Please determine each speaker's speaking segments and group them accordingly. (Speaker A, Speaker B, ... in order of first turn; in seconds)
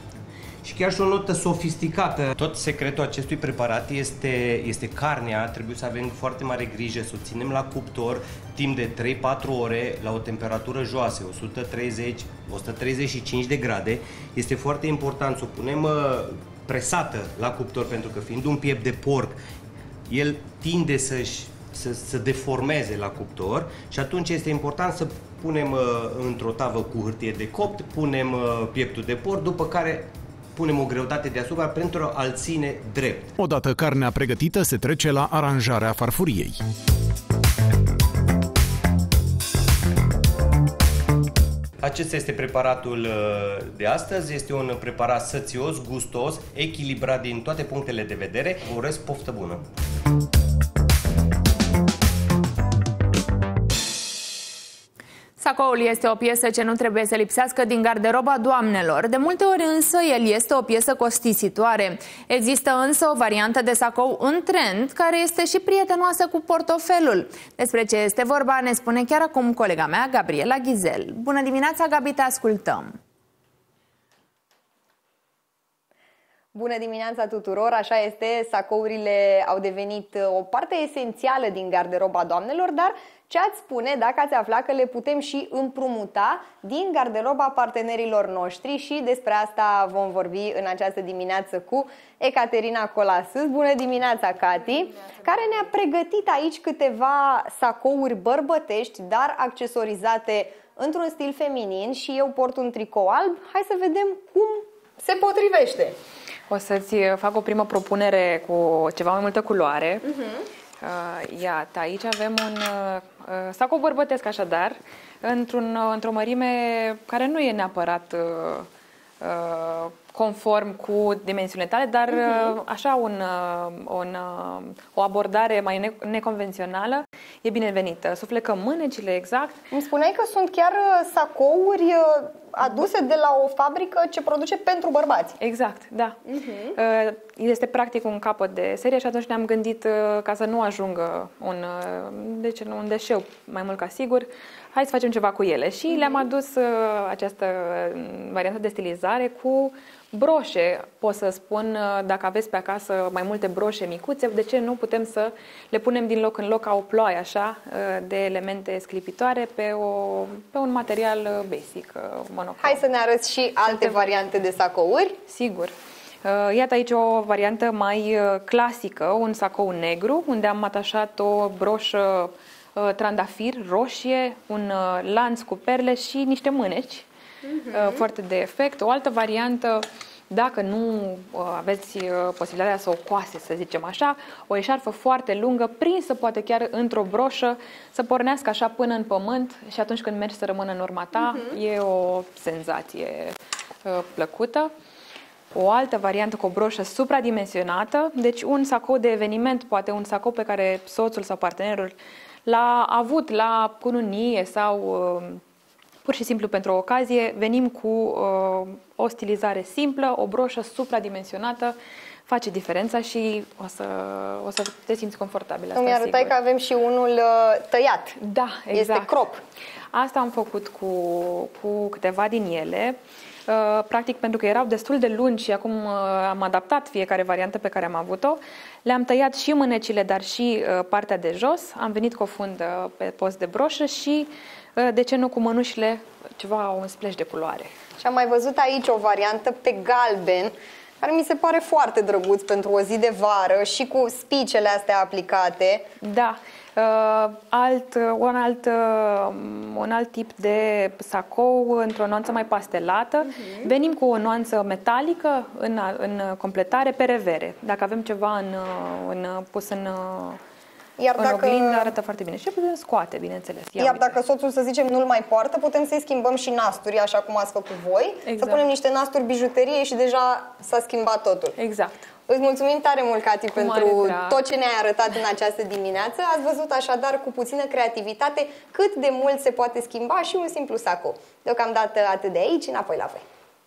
Speaker A: 0.6-19.4, 20.1-33.3, 41.8-49.6
Speaker B: 33.4-36.6
Speaker C: 55.4-73.0
Speaker D: 76.5-106.0, 129.7-135.3, 136.4-136.7, 162.6-165.2, 215.8-218.2, 218.7-219.4, 238.0-245.9, 261.0-261.9, 263.8-271.5, 272.3-283.2
Speaker E: 106.5-110.0, 110.8-118.7, 119.2-129.6, 135.4-136.2, 136.8-162.8, 163.7-164.1, 165.3-177.1, 177.7-194.7, 195.5-205.4, 206.1-216.4, 218.2-219.2, 219.9-237.7, 246.0-260.4, 261.1-264.2, 268.2-268.7, 271.6-272.1, 273.5-274.4